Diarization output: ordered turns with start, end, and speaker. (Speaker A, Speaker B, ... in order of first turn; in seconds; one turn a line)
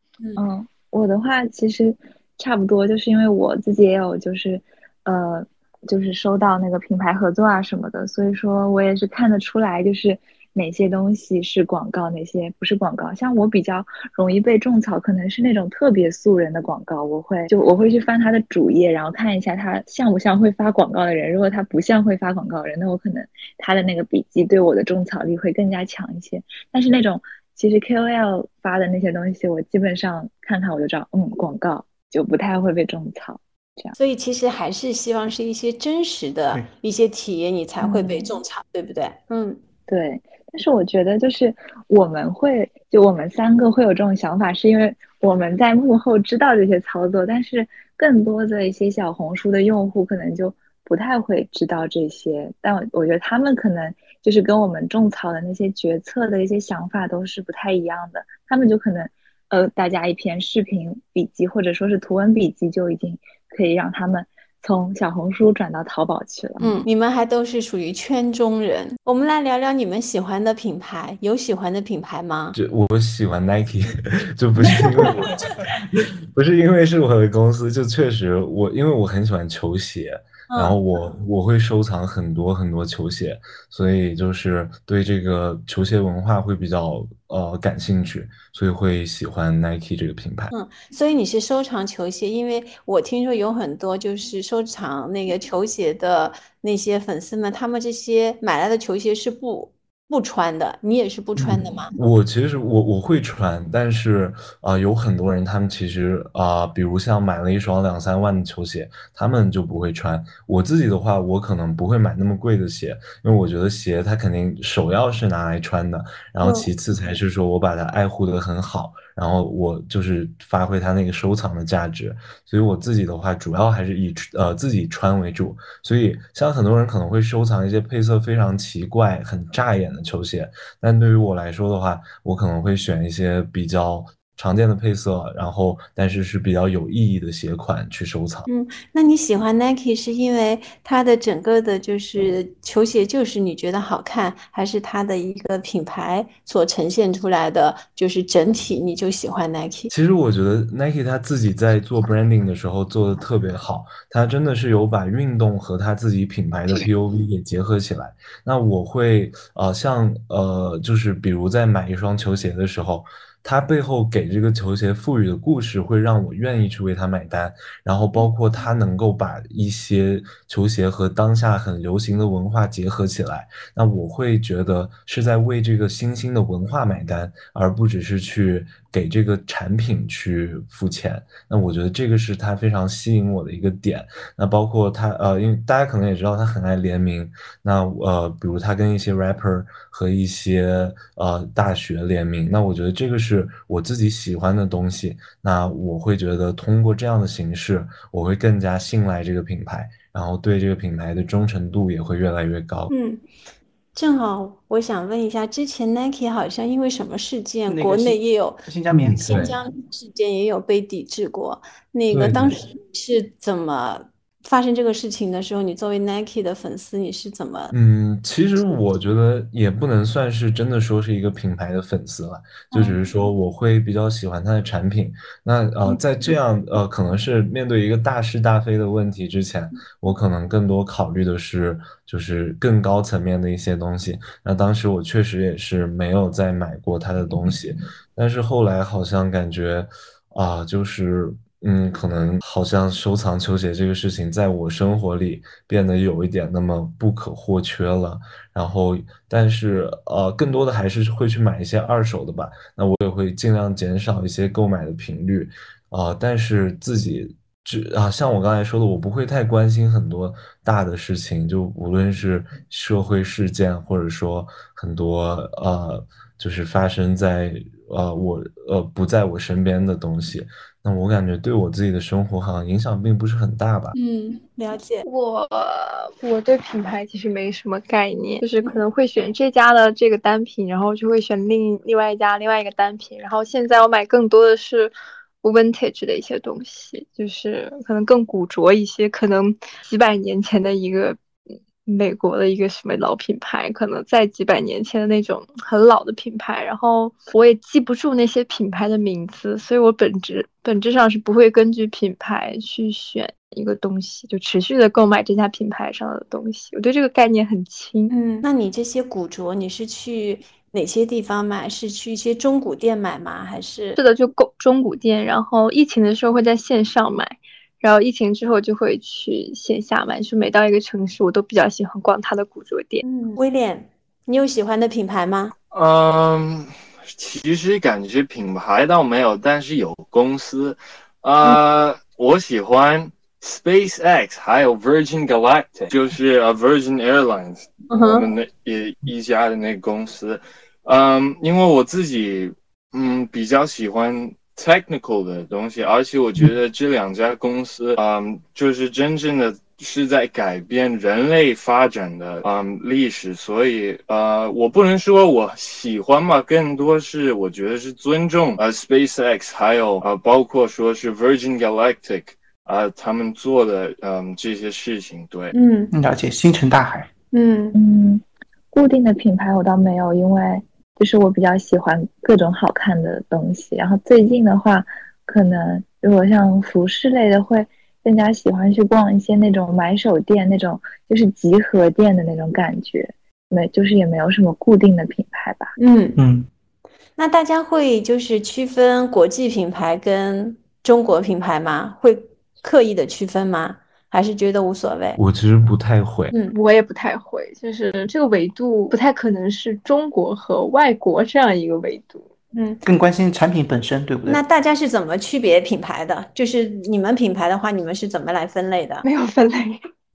Speaker A: 0.4-34.0
Speaker B: 34.0-39.6
Speaker A: 37.8-38.3
Speaker A: 39.9-66.8
Speaker B: 66.6-72.6
Speaker C: 72.5-90.5
Speaker B: 80.5-80.8
Speaker B: 90.5-101.9
Speaker C: 101.9-138.5
Speaker B: 116.4-116.7
Speaker B: 138.5-149.9
Speaker C: 149.9-202.9
Speaker B: 202.9-203.2
Speaker B: 203.9-208.6
Speaker D: 207.7-209.2
Speaker C: 208.9-209.6
Speaker B: 209.2-217.7
Speaker C: 212.1-212.6
Speaker C: 217.7-274.0
Speaker B: 222.7-223.0
Speaker E: 274.0-274.4
Speaker B: 274.5-275.1
Speaker E: 275.1-291.2
Speaker E: 291.9-308.1
Speaker B: 308.1-314.0
Speaker E: 314.0-323.0
Speaker B: 323.0-325.5
Speaker F: 325.7-365.5
Speaker B: 337.9-338.3
Speaker B: 365.5-365.9
Speaker D: 365.9-367.1
Speaker B: 367.3-367.8
Speaker A: 367.8-385.7
Speaker B: 385.8-386.2
Speaker D: 386.2-386.5
Speaker B: 387.2-395.2
Speaker C: 395.2-396.3
Speaker E: 396.5-402.3
Speaker B: 402.5-402.8
Speaker D: 402.8-404.4
Speaker B: 404.3-409.1
Speaker E: 409.0-409.8